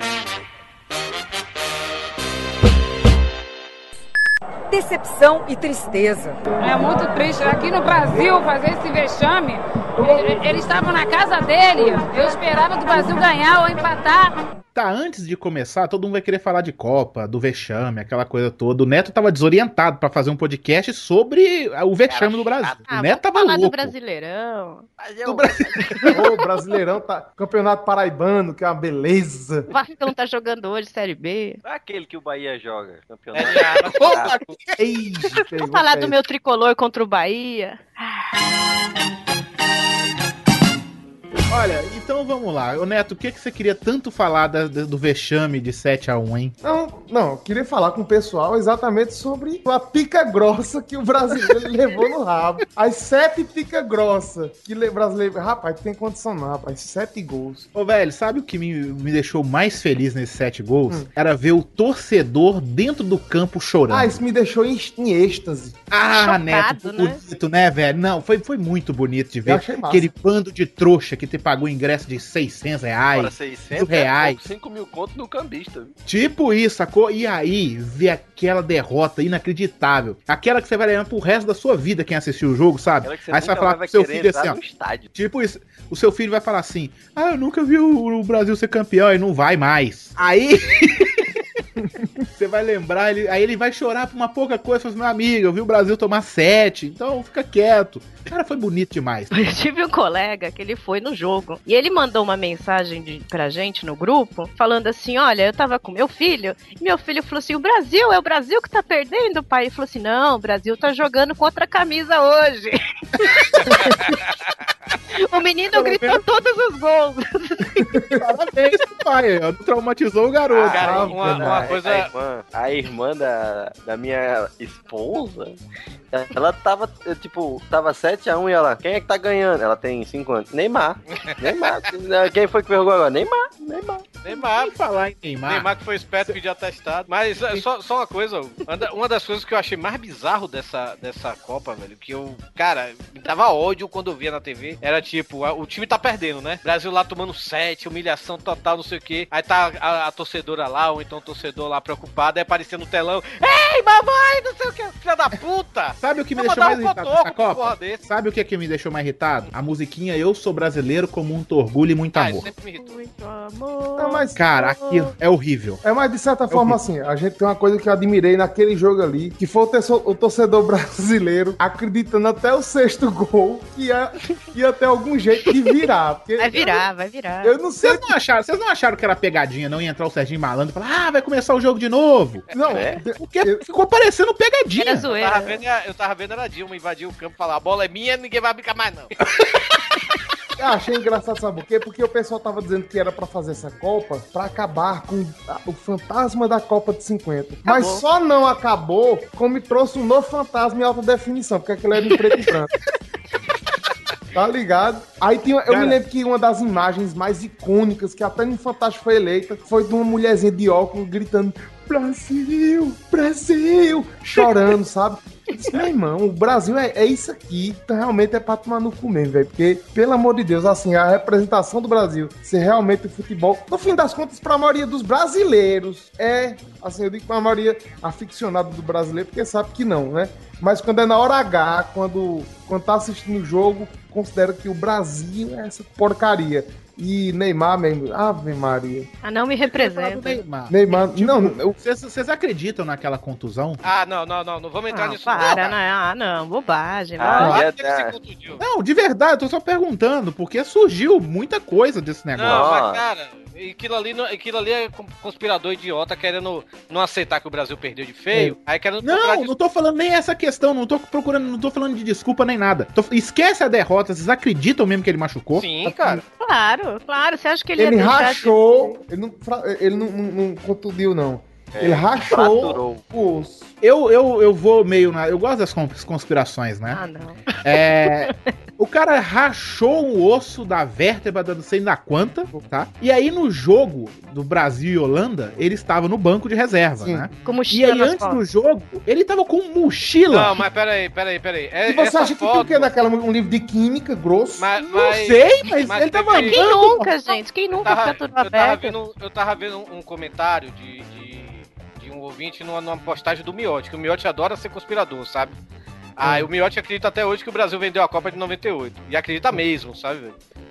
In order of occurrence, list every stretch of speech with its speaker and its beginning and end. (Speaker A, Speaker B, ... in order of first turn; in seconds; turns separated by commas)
Speaker A: 4.7-14.3, Speaker B: 14.7-23.9, Speaker C: 22.1-22.8, Speaker D: 22.9-24.9, Speaker C: 25.0-25.9, Speaker B: 25.3-26.2, Speaker D: 25.8-26.1, Speaker E: 26.1-29.7, Speaker D: 29.7-31.6, Speaker C: 31.6-34.3, Speaker F: 33.3-34.5, Speaker B: 34.0-35.4, Speaker E: 34.8-36.2, Speaker D: 35.4-38.2, Speaker B: 41.5-46.5, Speaker E: 46.6-57.7, Speaker B: 57.7-64.2, Speaker E: 63.9-65.8, Speaker B: 65.9-74.4, Speaker D: 66.1-67.2, Speaker E: 69.5-70.1, Speaker C: 73.1-75.9, Speaker B: 76.0-84.6, Speaker C: 83.0-85.1, Speaker B: 85.1-91.3, Speaker B: 92.3-99.3, Speaker D: 99.3-113.9, Speaker F: 113.7-114.3, Speaker D: 115.1-117.8, Speaker B: 115.7-116.2, Speaker E: 117.9-118.2, Speaker B: 118.2-121.1, Speaker C: 120.5-125.6, Speaker F: 120.7-122.1, Speaker E: 120.8-121.7, Speaker C: 126.1-134.1, Speaker F: 131.1-131.7, Speaker F: 134.2-134.7, Speaker B: 134.3-135.7, Speaker F: 135.4-158.0, Speaker B: 156.0-162.5, Speaker F: 162.1-163.0, Speaker D: 162.4-165.1, Speaker E: 164.0-164.4, Speaker B: 164.3-165.8, Speaker E: 165.8-176.9, Speaker B: 166.5-166.8, Speaker D: 176.4-177.6, Speaker E: 177.4-178.1, Speaker B: 177.8-182.4, Speaker E: 182.5-183.6, Speaker C: 182.7-183.0, Speaker B: 183.2-185.1, Speaker D: 184.7-185.6, Speaker F: 185.1-189.1, Speaker E: 190.6-202.7, Speaker D: 197.6-198.0, Speaker E: 204.3-239.1, Speaker B: 205.7-206.0, Speaker D: 239.2-240.4, Speaker B: 239.6-243.8, Speaker E: 240.7-241.7, Speaker F: 243.8-245.8, Speaker D: 244.9-247.6, Speaker C: 247.2-248.1, Speaker F: 247.2-248.6, Speaker B: 248.6-252.7, Speaker F: 252.3-259.5, Speaker C: 252.4-253.0, Speaker B: 259.0-265.7, Speaker F: 265.5-266.2, Speaker E: 265.9-266.2, Speaker D: 266.4-269.0, Speaker E: 267.8-273.7, Speaker C: 271.7-273.0, Speaker B: 273.8-277.0, Speaker D: 276.9-278.5, Speaker B: 277.6-290.6, Speaker E: 287.0-287.3, Speaker D: 287.4-288.4, Speaker F: 290.3-292.9, Speaker E: 291.9-294.7, Speaker F: 294.6-296.6, Speaker B: 294.8-297.1, Speaker D: 296.3-298.9, Speaker F: 297.8-305.6, Speaker F: 306.2-310.4